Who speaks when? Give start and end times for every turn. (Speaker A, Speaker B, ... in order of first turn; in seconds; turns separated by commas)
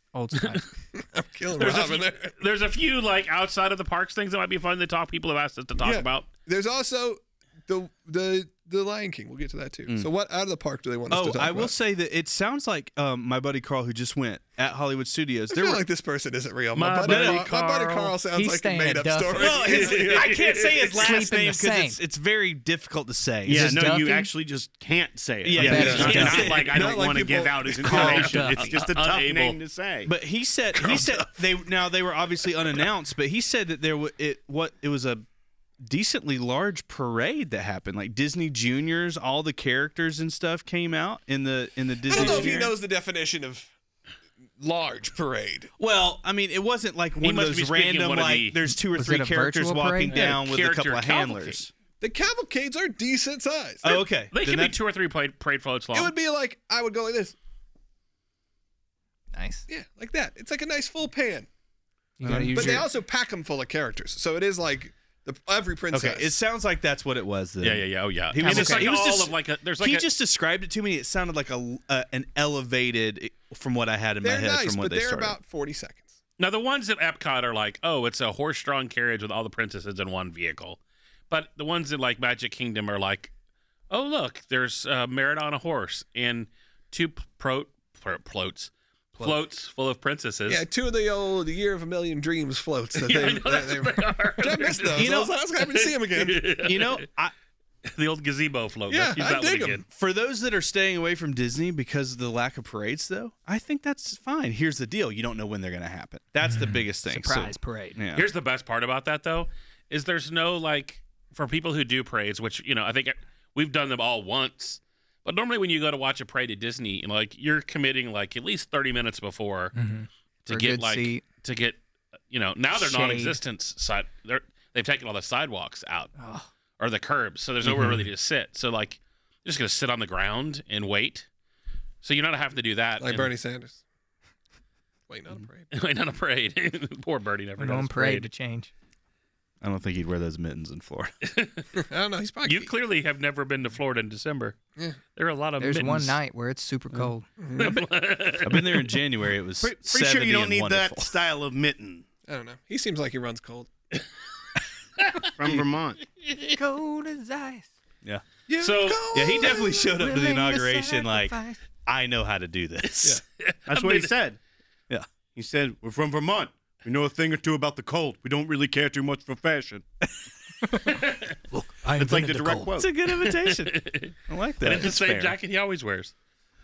Speaker A: 0.1-0.7, Speaker B: 0.3-0.6, Speaker C: 0.9-2.3, Speaker B: 1.6-6.3, Speaker C: 5.8-11.7, Speaker D: 11.1-15.8, Speaker C: 15.5-20.4, Speaker B: 16.7-18.1, Speaker D: 17.0-17.5, Speaker A: 18.3-19.8, Speaker D: 19.4-23.7, Speaker B: 19.6-20.9, Speaker A: 20.9-22.0, Speaker E: 23.4-30.1, Speaker A: 23.5-24.3, Speaker D: 25.4-26.9, Speaker A: 25.6-26.2, Speaker C: 25.7-28.5, Speaker B: 25.8-26.6, Speaker A: 27.8-28.7, Speaker B: 27.9-29.6, Speaker D: 30.1-35.2, Speaker C: 30.8-31.2, Speaker D: 35.8-42.7, Speaker C: 42.0-43.7, Speaker C: 44.6-45.7, Speaker D: 45.8-51.7, Speaker B: 47.2-48.6, Speaker A: 48.9-50.2, Speaker B: 50.1-51.6, Speaker C: 52.0-54.0, Speaker D: 53.8-54.8, Speaker B: 54.3-56.1, Speaker C: 55.9-57.3, Speaker A: 59.3-59.7, Speaker C: 59.7-61.5, Speaker A: 62.2-62.9, Speaker D: 62.2-62.8, Speaker C: 62.5-66.3, Speaker D: 65.9-75.4, Speaker B: 67.6-70.1, Speaker A: 68.4-68.9, Speaker C: 74.2-76.2, Speaker B: 76.4-80.8, Speaker B: 81.3-83.3, Speaker B: 83.9-90.6, Speaker C: 90.5-96.5, Speaker B: 92.9-97.0, Speaker D: 94.9-95.3, Speaker D: 96.6-97.3, Speaker B: 97.9-99.8, Speaker C: 98.9-99.8, Speaker D: 99.9-108.3, Speaker A: 106.4-108.0, Speaker B: 108.1-119.7, Speaker A: 119.7-121.2, Speaker B: 120.5-121.8, Speaker B: 122.3-126.1, Speaker A: 122.7-123.4, Speaker A: 126.2-126.5, Speaker B: 126.8-131.3, Speaker D: 127.7-128.0, Speaker B: 132.0-133.3, Speaker C: 133.0-133.8, Speaker C: 135.1-135.7, Speaker B: 135.7-138.3, Speaker A: 137.6-138.7, Speaker D: 139.6-141.1, Speaker B: 141.2-141.7, Speaker C: 141.7-142.7, Speaker B: 142.4-144.6, Speaker B: 145.1-146.2, Speaker A: 145.6-147.3, Speaker C: 147.4-147.8, Speaker B: 147.6-148.8, Speaker D: 148.4-151.2, Speaker E: 149.6-152.0, Speaker C: 152.3-153.7, Speaker B: 155.0-155.2, Speaker E: 155.4-156.0, Speaker A: 156.5-157.7, Speaker C: 158.5-159.6, Speaker B: 158.6-159.1, Speaker D: 159.0-163.2, Speaker A: 159.4-161.6, Speaker B: 163.4-164.1, Speaker E: 163.7-164.4, Speaker E: 165.3-169.8, Speaker A: 170.6-172.7, Speaker B: 170.9-171.3, Speaker E: 171.9-172.9, Speaker D: 172.8-175.4, Speaker B: 173.1-176.1